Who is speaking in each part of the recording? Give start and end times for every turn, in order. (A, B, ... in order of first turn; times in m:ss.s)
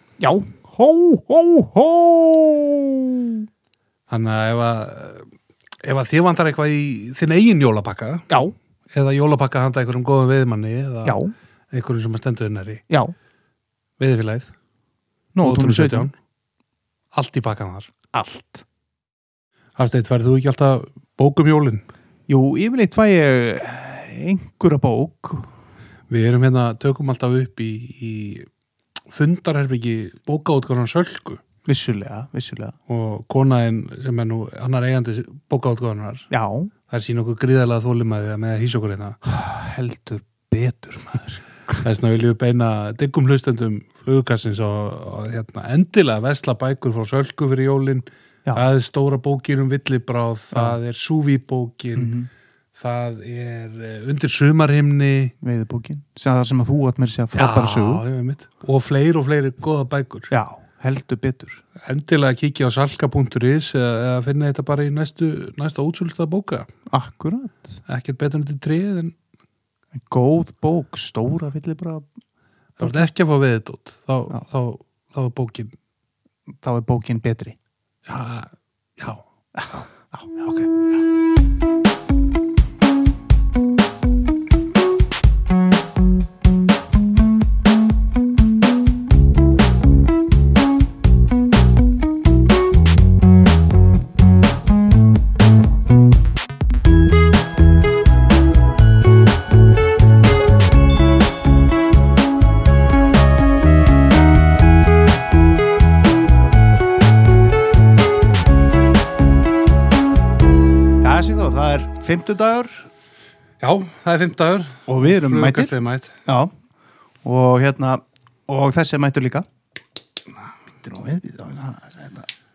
0:00.2-0:03.5 A
0:04.1-0:05.3 B
0:05.8-0:08.3 B
0:08.3-0:08.6 A
0:08.9-0:12.8 B
0:11.0-0:11.3 A
0:12.9-0:13.2 A
0:14.0-0:14.5 B
0:15.4-0:16.1 A
0:15.4-0:16.1 B
0:17.1-0:17.9 B
0:18.1-0:18.6 A
0:19.8-0:21.8 B
0:22.3-0:25.5 A
0:26.1-0:28.5 B
0:29.1-0:31.4 B
0:31.6-0:32.8 A
0:32.9-0:36.3 B
0:36.3-0:36.7 A
0:36.9-0:39.2 B
0:39.2-0:41.8 A
0:41.8-0:52.2 B
0:50.5-0:50.8 A
0:52.0-0:52.3 A
0:52.8-0:55.3 B
0:55.4-0:58.0 A
0:57.4-1:00.3 B
1:00.3-1:01.6 A
1:01.8-1:06.7 B
1:06.9-1:07.8 A
1:07.9-1:09.2 B
1:10.0-1:12.1 A
1:12.8-1:15.7 B
1:12.8-1:13.0 A
1:16.6-1:17.6 A
1:18.1-1:19.2 B
1:19.6-1:20.5 A
1:51.0-1:52.9 A
1:53.6-1:56.1 B
1:54.9-1:56.5 A
1:57.2-1:59.5 A
2:00.7-2:02.3 A